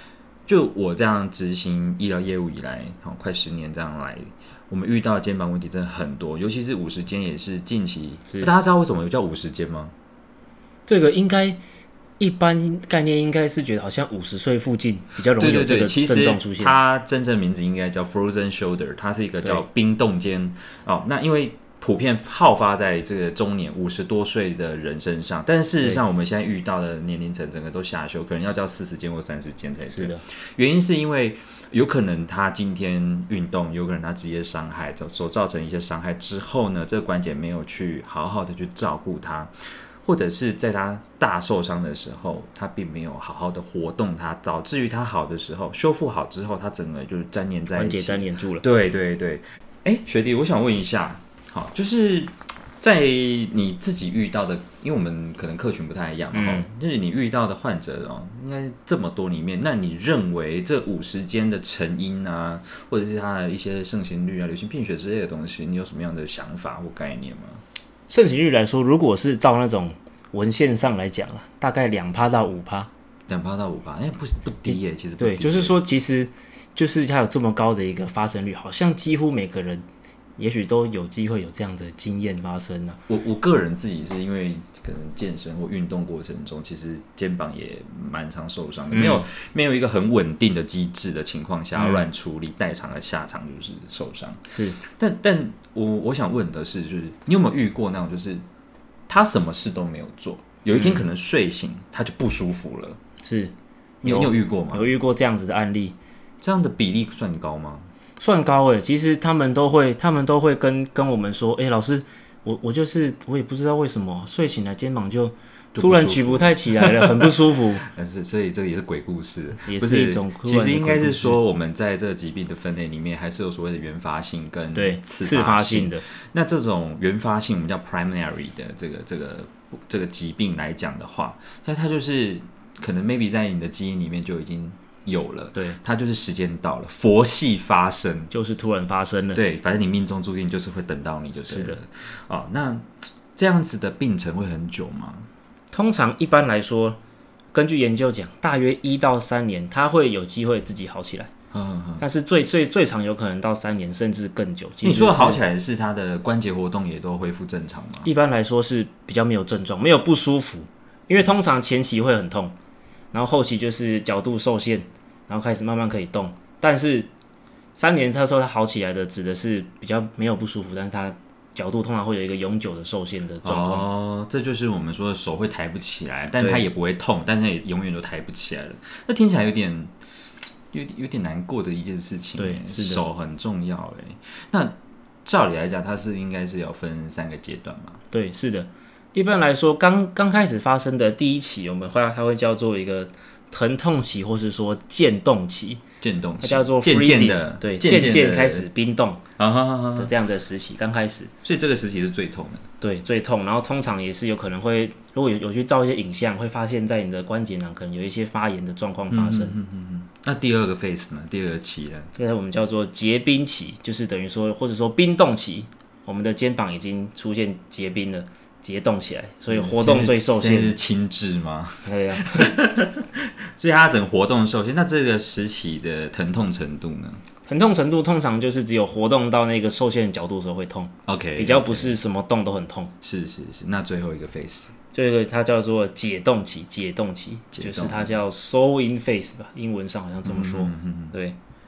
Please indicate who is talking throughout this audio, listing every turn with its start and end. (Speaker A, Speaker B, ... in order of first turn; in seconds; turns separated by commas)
Speaker A: 0.5-9.9, Speaker B: 10.9-11.6, Speaker B: 12.2-16.8, Speaker A: 15.4-39.5, Speaker B: 29.9-30.2, Speaker A: 40.0-67.6, Speaker B: 47.7-48.6, Speaker B: 56.3-56.7, Speaker B: 68.1-72.9, Speaker A: 73.3-75.8, Speaker B: 74.6-79.9, Speaker B: 80.4-83.0, Speaker A: 83.1-98.4, Speaker B: 88.9-89.2, Speaker B: 91.8-92.0, Speaker B: 94.5-94.8, Speaker A: 99.1-103.0, Speaker B: 100.7-101.0, Speaker B: 103.2-106.0, Speaker A: 104.0-104.9, Speaker A: 106.4-107.9, Speaker B: 108.2-117.8, Speaker A: 115.7-138.3, Speaker B: 119.6-121.4, Speaker B: 124.8-126.0, Speaker B: 138.3-139.4, Speaker A: 139.3-145.3, Speaker B: 141.4-141.8, Speaker B: 145.7-147.0, Speaker B: 147.5-151.3, Speaker A: 151.5-152.0, Speaker B: 152.0-155.4, Speaker A: 154.8-158.1, Speaker B: 158.0-162.5, Speaker B: 163.1-167.1, Speaker B: 167.8-173.9, Speaker A: 173.4-179.9, Speaker A: 180.7-188.0, Speaker B: 182.4-183.0, Speaker B: 188.1-195.8, Speaker A: 196.0-198.7, Speaker B: 196.4-199.2, Speaker A: 199.4-200.1, Speaker B: 200.0-201.3, Speaker A: 201.4-202.6, Speaker B: 202.8-209.6, Speaker A: 209.1-212.1, Speaker B: 212.1-220.8, Speaker A: 219.5-227.2, Speaker B: 221.8-222.5, Speaker B: 227.5-232.9, Speaker A: 231.1-232.0, Speaker A: 233.0-234.7, Speaker B: 234.9-241.4, Speaker A: 237.5-238.2, Speaker A: 240.2-241.1